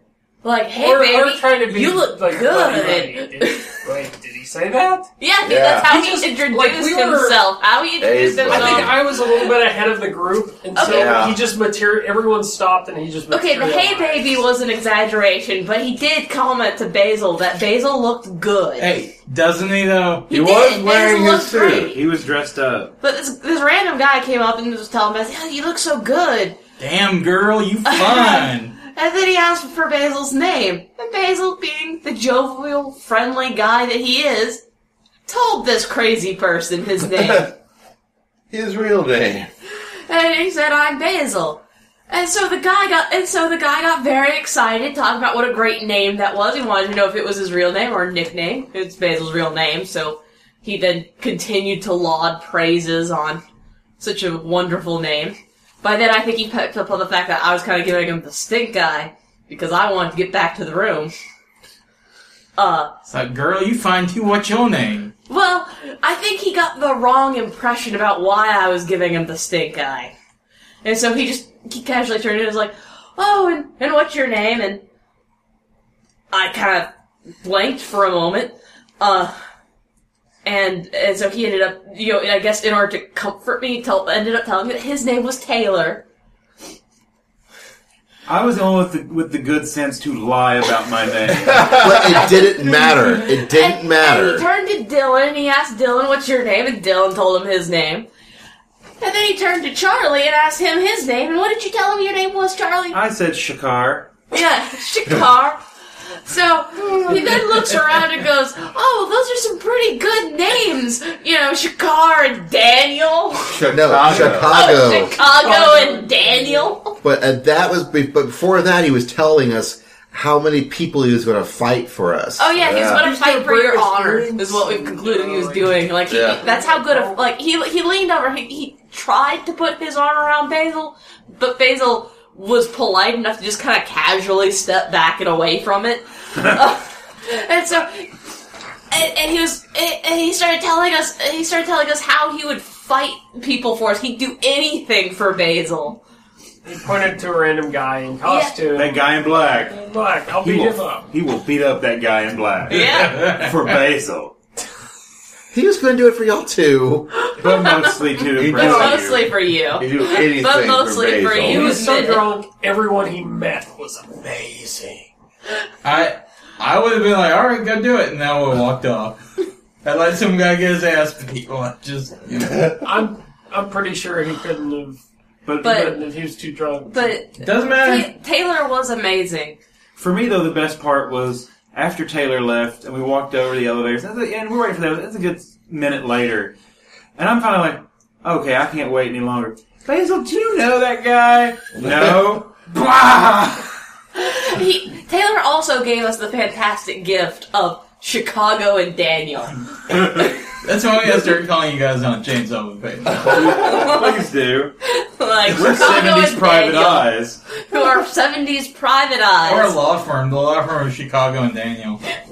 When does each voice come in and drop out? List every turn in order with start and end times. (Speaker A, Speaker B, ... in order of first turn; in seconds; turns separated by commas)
Speaker A: 0.4-3.8, Speaker B: 0.7-5.1, Speaker A: 5.2-9.4, Speaker C: 5.4-5.9, Speaker B: 5.8-7.5, Speaker C: 8.0-9.0, Speaker B: 8.4-14.4, Speaker A: 10.7-11.3, Speaker C: 10.8-11.4, Speaker A: 13.3-18.9, Speaker D: 18.8-20.3, Speaker A: 20.3-22.0, Speaker C: 20.3-21.9, Speaker E: 21.9-22.9, Speaker A: 23.0-26.6, Speaker D: 26.8-28.8, Speaker A: 27.9-34.6, Speaker A: 35.3-37.5, Speaker C: 37.1-37.5, Speaker C: 38.5-39.5, Speaker A: 40.1-53.4, Speaker A: 54.0-61.1, Speaker A: 62.5-62.9, Speaker D: 63.1-65.1, Speaker A: 65.3-70.1, Speaker A: 70.8-74.8, Speaker A: 76.3-76.9, Speaker A: 77.4-79.3, Speaker A: 80.4-86.0, Speaker E: 88.3-91.8, Speaker C: 91.5-91.8, Speaker F: 91.7-94.5, Speaker A: 91.9-98.1, Speaker A: 99.0-103.0, Speaker E: 102.9-104.1, Speaker A: 104.3-105.6, Speaker A: 106.2-113.6, Speaker C: 113.5-114.7, Speaker F: 113.7-115.1, Speaker A: 114.3-116.9, Speaker B: 115.1-116.8, Speaker F: 117.0-122.5, Speaker A: 122.4-138.1, Speaker C: 122.6-123.1, Speaker B: 123.0-127.2, Speaker C: 126.1-126.4, Speaker A: 138.9-146.0, Speaker B: 146.6-149.1, Speaker A: 148.2-148.6, Speaker E: 148.7-149.8, Speaker B: 149.7-151.1, Speaker E: 150.4-154.3, Speaker A: 152.7-153.3, Speaker F: 155.5-157.1, Speaker E: 157.4-159.3, Speaker A: 157.4-162.3, Speaker C: 158.3-159.1, Speaker B: 158.5-159.0, Speaker C: 159.7-161.8, Speaker B: 161.4-165.1, Speaker D: 165.8-169.2, Speaker D: 169.8-172.7, Speaker B: 172.8-175.0, Speaker E: 175.4-175.9, Speaker A: 175.6-176.0, Speaker B: 175.7-177.2, Speaker A: 176.8-179.6, Speaker D: 177.4-178.1, Speaker E: 180.0-186.5, Speaker E: 187.2-193.7, Speaker A: 194.1-199.6, Speaker D: 200.6-203.5, Speaker E: 203.2-204.7, Speaker A: 203.4-204.3, Speaker A: 204.8-209.8, Speaker E: 205.4-207.4, Speaker D: 209.4-212.0